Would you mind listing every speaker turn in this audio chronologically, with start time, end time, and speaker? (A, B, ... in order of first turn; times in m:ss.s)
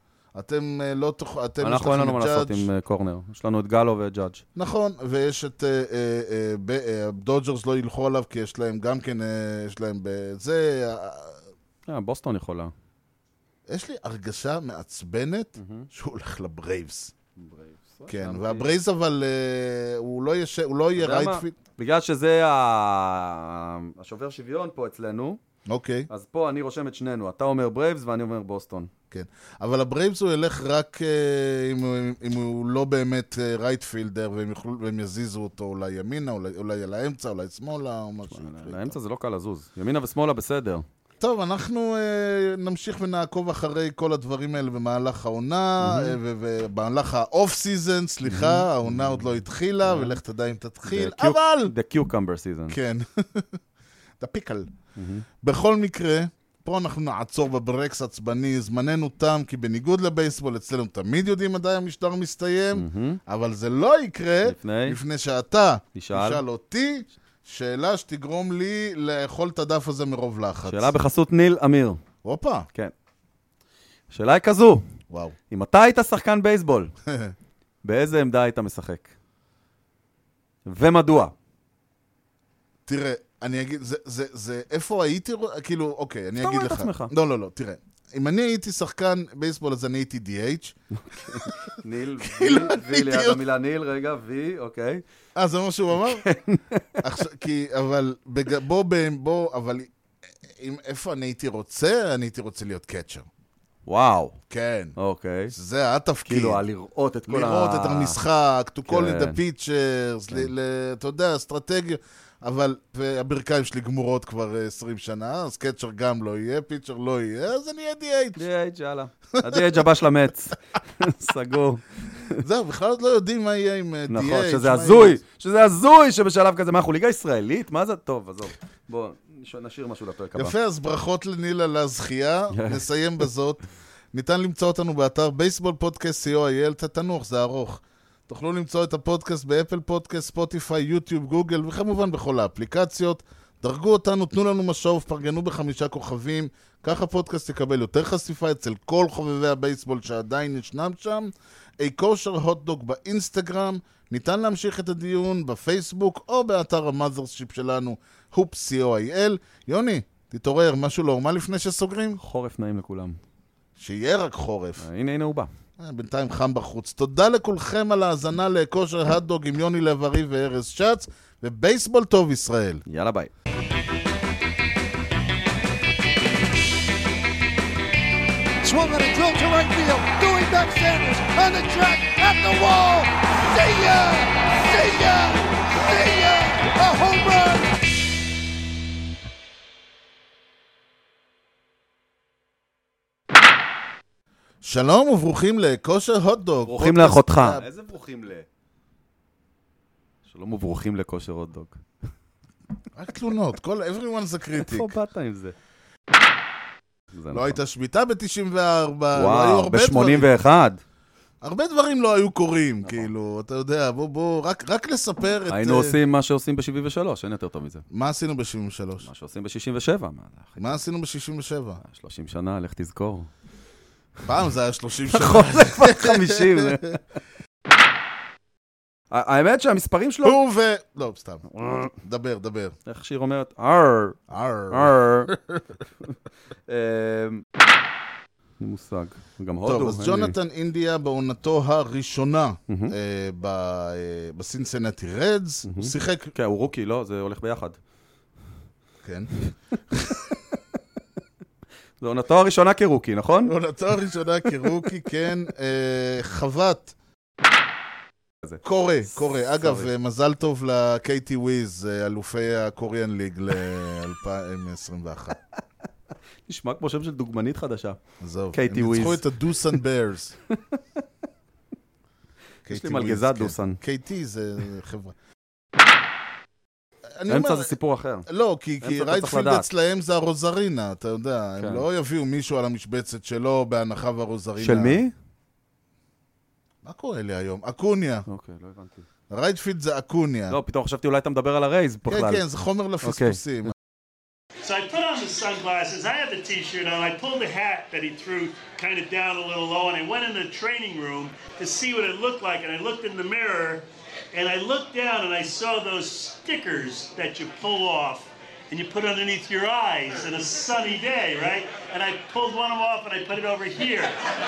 0:00.3-0:02.7 A
0:01.6-0:04.4 B
0:04.6-0:11.4 A
0:11.9-0:12.7 B
0:13.7-0:17.1 A
0:15.6-0:15.9 B
0:17.4-0:18.7 B
0:18.1-0:21.6 A
0:21.0-0:25.4 B
0:25.7-0:26.1 A
0:26.1-0:28.9 B
0:29.1-0:39.0 A
0:38.3-0:40.8 B
0:41.2-0:51.7 A
0:45.8-0:46.2 B
0:48.3-0:49.3 B
0:49.8-0:50.2 B
0:50.9-0:52.8 B
0:52.7-0:53.6 A
0:54.2-0:54.7 A
0:55.0-0:55.3 B
0:55.4-1:10.9 A
1:02.7-1:03.2 B
1:04.4-1:05.0 B
1:06.0-1:06.4 B
1:10.7-1:12.0 B
1:12.2-1:12.7 A
1:14.1-1:14.8 B
1:15.1-1:15.4 A
1:15.5-1:16.9 B
1:17.1-1:17.3 A
1:17.8-1:19.1 B
1:20.7-1:21.3 B
1:22.9-1:30.8 A
1:26.4-1:27.1 B
1:31.0-1:35.0 B
1:32.2-1:33.4 A
1:35.4-1:36.2 A
1:36.0-1:37.0 B
1:37.0-1:39.9 A
1:40.4-1:43.3 A
1:43.9-1:44.4 B
1:44.5-1:45.0 A
1:45.0-1:45.5 B
1:45.5-1:46.6 A
1:46.3-1:48.2 B
1:47.3-1:58.4 A
1:48.9-1:49.4 B
1:58.4-2:02.4 B
1:59.4-1:59.8 A
2:02.4-2:05.2 A
2:04.1-2:10.6 B
2:10.4-2:42.2 A
2:12.5-2:12.8 B
2:42.2-2:43.2 B
2:43.8-2:44.8 A
2:44.8-2:45.5 B
2:45.8-2:52.8 A
2:52.9-2:53.3 B
2:58.6-3:07.7 C
3:14.6-3:17.7 A
3:16.7-3:18.5 B
3:20.3-3:21.8 B
3:22.9-3:24.9 A
3:24.6-3:25.6 B
3:27.1-3:27.6 B
3:27.3-3:30.3 A
3:29.2-3:30.8 B
3:31.4-3:36.0 A
3:32.8-3:33.1 B
3:35.5-3:37.8 B
3:37.9-3:39.1 A
3:39.0-3:40.8 B
3:40.6-3:41.8 A
3:41.8-3:43.3 B
3:44.2-3:46.9 A
3:45.1-3:47.0 B
3:49.1-3:50.4 B
3:50.2-3:52.8 A
3:51.6-3:51.9 B
3:52.9-3:54.2 B
3:54.3-3:55.6 A
3:54.7-3:55.3 B
3:56.7-3:57.4 B
3:58.6-4:00.4 B
3:59.6-4:06.3 A
4:02.7-4:03.0 B
4:05.7-4:07.8 B
4:09.0-4:09.3 A
4:09.9-4:10.3 A
4:12.0-4:13.6 B
4:13.4-4:17.0 A
4:18.6-4:25.4 A
4:26.5-4:28.0 B
4:28.2-4:30.4 A
4:28.5-4:29.3 B
4:30.5-4:31.0 B
4:32.7-4:35.1 A
4:32.7-4:33.8 B
4:37.2-4:37.8 A
4:37.3-4:38.3 B
4:38.3-4:45.0 A
4:38.8-4:39.7 B
4:41.6-4:41.8 B
4:44.6-4:45.1 B
4:46.8-4:48.2 A
4:48.3-4:49.1 B
4:49.3-4:50.6 A
4:50.5-4:52.4 B
4:52.1-4:53.7 A
4:53.0-4:53.7 B
4:54.6-5:14.2 D